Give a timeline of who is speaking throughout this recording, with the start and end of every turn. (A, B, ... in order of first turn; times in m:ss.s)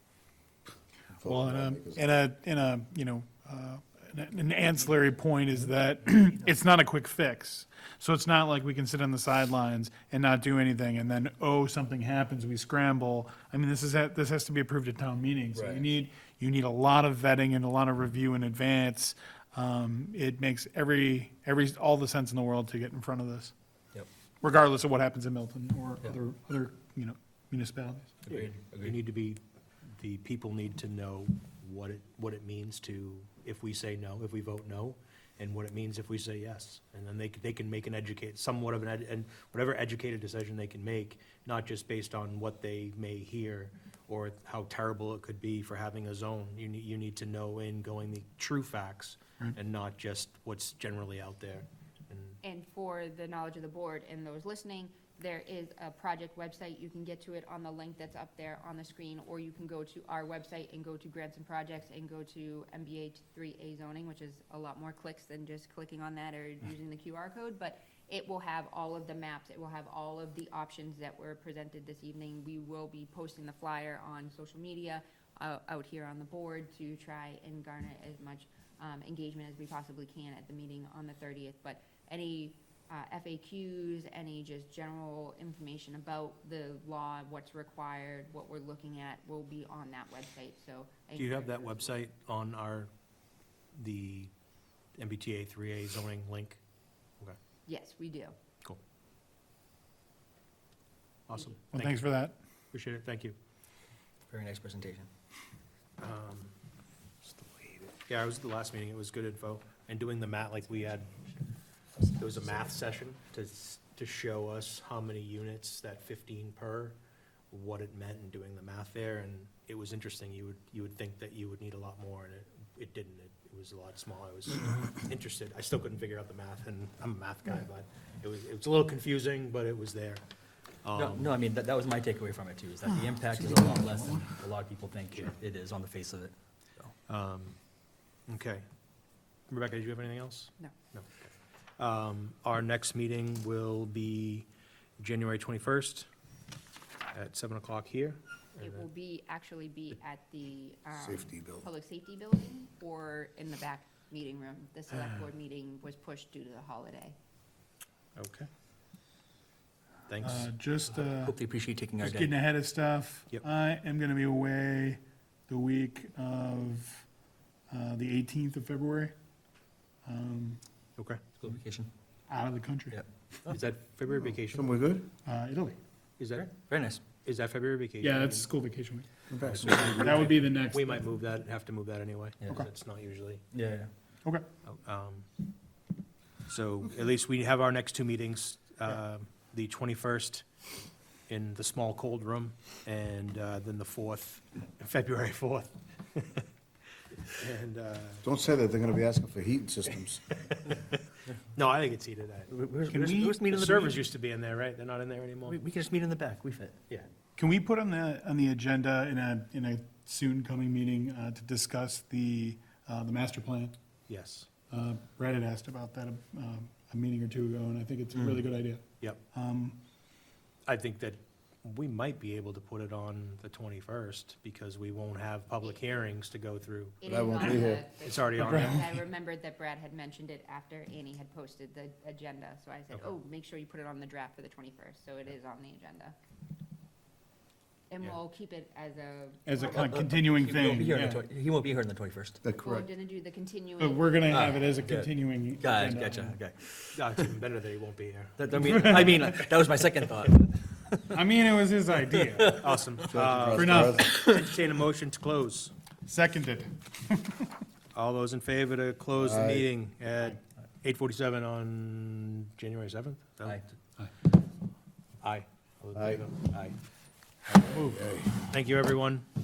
0:01.2-0:02.0 A
0:01.2-0:23.5 B
0:15.5-0:15.8 C
0:24.4-0:28.2 B
0:28.2-0:29.0 C
0:28.3-0:52.4 D
0:52.4-1:31.9 E
1:31.2-1:32.9 D
1:33.8-1:34.3 D
1:35.0-1:36.6 D
1:37.7-1:38.3 E
1:41.3-1:42.0 D
1:41.7-1:42.4 B
1:42.7-1:43.4 D
1:44.3-1:45.1 C
1:46.0-1:46.5 D
1:48.0-1:51.1 D
1:52.2-1:57.0 D
1:57.5-2:10.2 D
2:10.8-2:11.4 D
2:10.9-2:16.9 C
2:17.1-2:17.6 D
2:18.3-2:18.6 D
2:19.5-2:21.1 D
2:21.8-2:24.5 D
2:25.0-2:26.1 D
2:27.1-2:28.8 D
2:28.6-2:37.2 E
2:31.0-2:31.7 A
2:38.2-2:38.5 D
2:40.1-2:40.5 D
2:40.2-2:41.4 B
2:41.0-2:42.3 C
2:42.0-2:47.1 B
2:47.7-2:49.1 B
2:50.1-2:50.6 B
2:51.0-2:51.4 D
2:51.4-2:51.9 C
2:52.3-2:53.0 B
2:52.9-2:53.6 C
2:53.5-2:54.7 D
2:54.5-2:55.1 A
2:55.2-2:55.8 B
2:56.2-2:56.5 D
2:56.3-2:57.0 C
2:57.2-2:58.5 D
2:58.0-2:59.1 B
2:59.3-3:00.3 A
2:59.4-3:03.4 D
2:59.7-3:01.0 B
3:03.5-3:03.9 C
3:04.7-3:05.3 D
3:06.5-3:10.4 D
3:11.3-3:16.4 D
3:17.3-3:18.2 D
3:18.2-3:20.3 A
3:21.5-3:25.6 D
3:22.5-3:24.1 C
3:25.4-3:26.8 C
3:27.4-3:33.8 B
3:34.1-3:34.5 D
3:34.7-3:39.8 B
3:40.7-3:48.9 D
3:47.0-3:56.2 E
3:47.0-3:47.8 A
3:48.4-3:49.0 B
3:57.9-4:00.0 E
3:59.5-4:01.3 B
3:59.7-4:02.4 C
4:02.4-4:02.9 A
4:02.6-4:04.5 E
4:03.8-4:06.4 B
4:04.3-4:07.3 C
4:06.9-4:09.2 D
4:08.4-4:11.2 C
4:08.5-4:09.4 B
4:11.1-4:12.7 B
4:12.1-4:13.0 C
4:12.6-4:15.7 D
4:13.0-4:14.1 A
4:13.5-4:14.6 B
4:16.1-4:17.5 B
4:17.9-4:23.6 D
4:19.2-4:19.7 A
4:25.2-4:26.8 D
4:26.0-4:26.3 A
4:27.5-4:28.5 A
4:28.4-4:29.3 D